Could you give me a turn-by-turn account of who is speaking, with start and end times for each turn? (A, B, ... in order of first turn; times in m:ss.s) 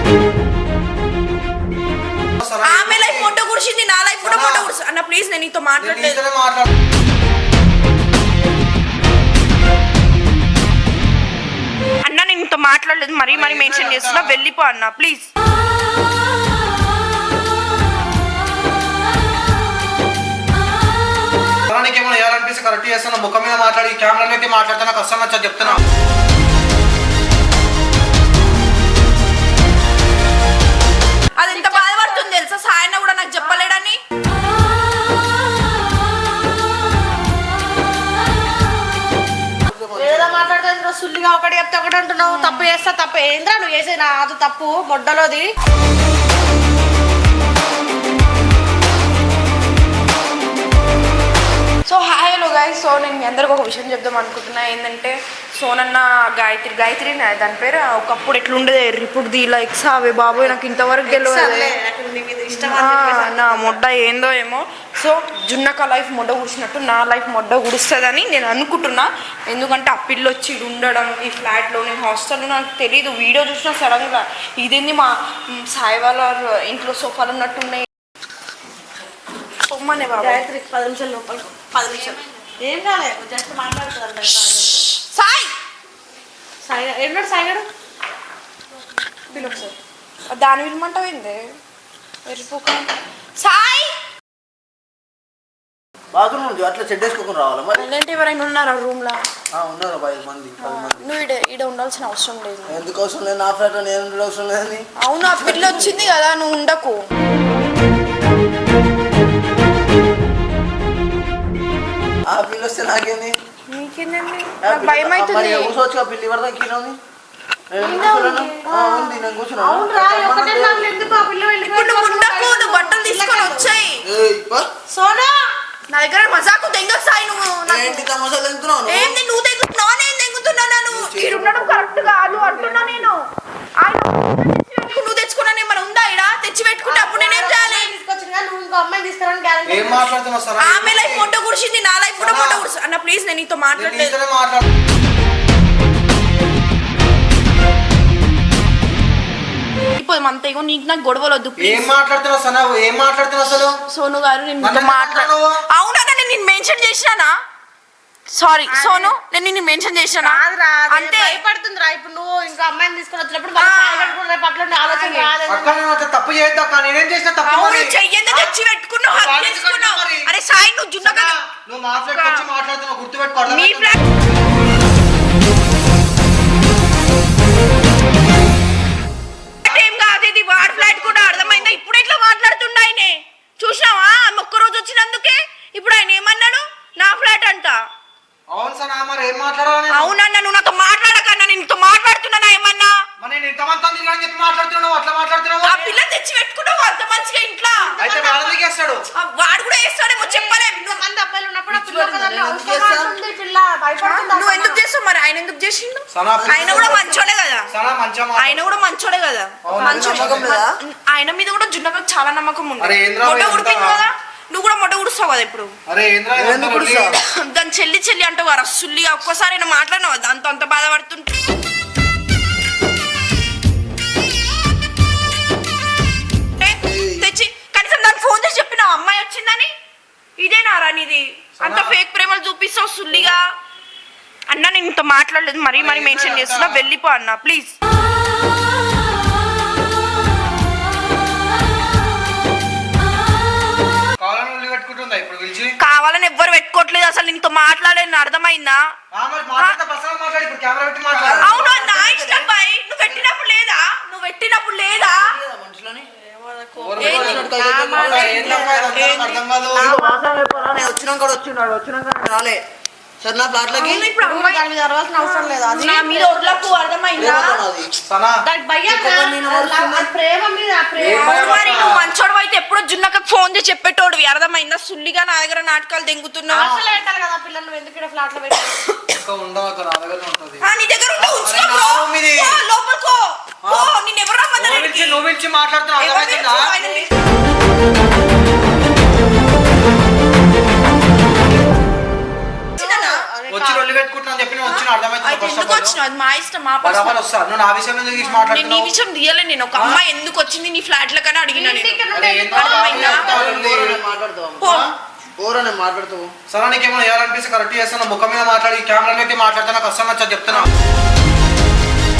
0:02.4-0:03.3 A
0:02.6-0:06.2 B
0:04.2-0:04.7 A
0:05.8-0:06.7 A
0:12.0-0:15.3 B
0:13.3-0:14.3 A
0:21.7-0:25.8 A
0:31.4-0:34.0 B
0:31.5-0:32.2 C
0:39.6-0:40.6 D
0:40.0-0:45.5 C
0:42.2-0:42.7 B
0:51.9-1:01.7 B
1:00.3-1:03.8 C
1:02.5-1:17.9 B
1:19.6-1:20.4 B
1:20.2-1:24.9 C
1:24.9-1:25.5 B
1:26.6-1:27.7 C
1:29.3-1:29.8 C
1:29.3-1:29.7 B
1:30.3-1:31.4 B
1:32.2-1:33.9 B
1:36.1-1:37.9 D
1:37.8-1:39.2 B
1:39.6-1:41.1 D
1:40.6-1:42.8 B
1:42.7-1:46.1 D
1:45.0-1:47.0 B
1:52.2-1:53.4 D
1:53.7-1:55.8 B
1:54.6-1:57.0 D
1:57.7-2:00.9 D
1:57.8-2:03.7 C
2:01.7-2:04.0 B
2:04.0-2:04.7 D
2:04.9-2:05.4 C
2:05.9-2:08.1 B
2:07.7-2:09.2 D
2:08.9-2:13.2 B
2:10.9-2:13.1 D
2:13.8-2:17.9 B
2:16.9-2:20.1 C
2:19.7-2:21.3 A
2:20.6-2:24.2 B
2:22.2-2:22.7 A
2:23.8-2:24.6 A
2:29.9-2:31.9 B
2:31.6-2:33.8 A
2:33.9-2:37.3 B
2:34.6-2:35.6 A
2:38.3-2:40.4 B
2:38.7-2:39.1 C
2:40.2-2:45.8 C
2:40.9-2:41.3 B
2:43.6-2:44.2 B
2:44.9-2:45.3 B
2:45.5-2:48.5 A
2:47.4-2:51.3 B
2:49.1-2:50.3 A
2:51.0-2:54.0 A
2:52.1-2:52.4 B
2:53.5-2:54.0 B
2:59.6-3:07.8 B
3:00.6-3:01.8 A
3:08.5-3:10.2 A
3:09.9-3:12.9 B
3:13.2-3:15.8 A
3:15.6-3:17.9 B
3:17.8-3:18.6 C
3:18.0-3:19.0 A
3:19.2-3:21.0 B
3:20.2-3:24.8 C
3:21.7-3:23.2 D
3:24.0-3:27.7 B
3:26.1-3:27.0 A
3:26.3-3:27.2 D
3:27.7-3:28.8 A
3:28.4-3:35.7 B
3:29.6-3:30.5 A
3:29.8-3:30.7 D
3:32.8-3:34.1 A
3:35.9-3:37.2 A
3:36.3-3:37.2 D
3:37.0-3:41.6 B
3:46.6-3:49.7 B
3:46.8-3:47.3 D
3:50.4-3:53.5 B
3:51.6-3:52.0 A
3:54.5-3:57.8 B
3:55.8-3:56.8 A
4:04.2-4:05.8 A
4:05.8-4:08.8 B
4:09.1-4:11.6 A
4:11.1-4:12.5 D
4:11.4-4:15.3 B
4:14.9-4:16.1 D
4:16.1-4:20.9 C
4:16.8-4:19.9 A
4:17.0-4:18.9 D
4:17.0-4:17.4 B
4:18.9-4:19.4 B
4:19.7-4:22.6 D
4:23.2-4:24.1 D
4:23.8-4:24.6 B
4:24.2-4:26.8 C
4:25.2-4:27.6 B
4:27.2-4:27.9 D
4:28.0-4:28.4 A
4:28.5-4:31.8 C
4:28.9-4:30.1 D
4:31.0-4:32.1 A
4:31.0-4:36.7 B
4:36.5-4:38.9 C
4:38.9-4:39.1 B
4:39.1-4:40.7 A
4:40.6-4:45.2 B
4:41.2-4:42.6 A
4:43.6-4:43.9 A
4:44.6-4:46.7 A
4:46.0-4:47.1 B
4:46.8-4:47.1 C
4:52.8-4:53.2 B
4:52.8-4:53.9 C
4:53.5-4:56.0 A
4:54.7-4:57.2 B
4:56.8-4:58.9 A
4:58.1-5:02.0 B
4:59.8-5:00.0 A
5:01.5-5:03.6 C
5:02.1-5:04.0 A
5:02.6-5:03.3 B
5:02.8-5:04.8 D
5:04.6-5:04.9 B
5:05.4-5:06.3 D
5:06.5-5:10.7 A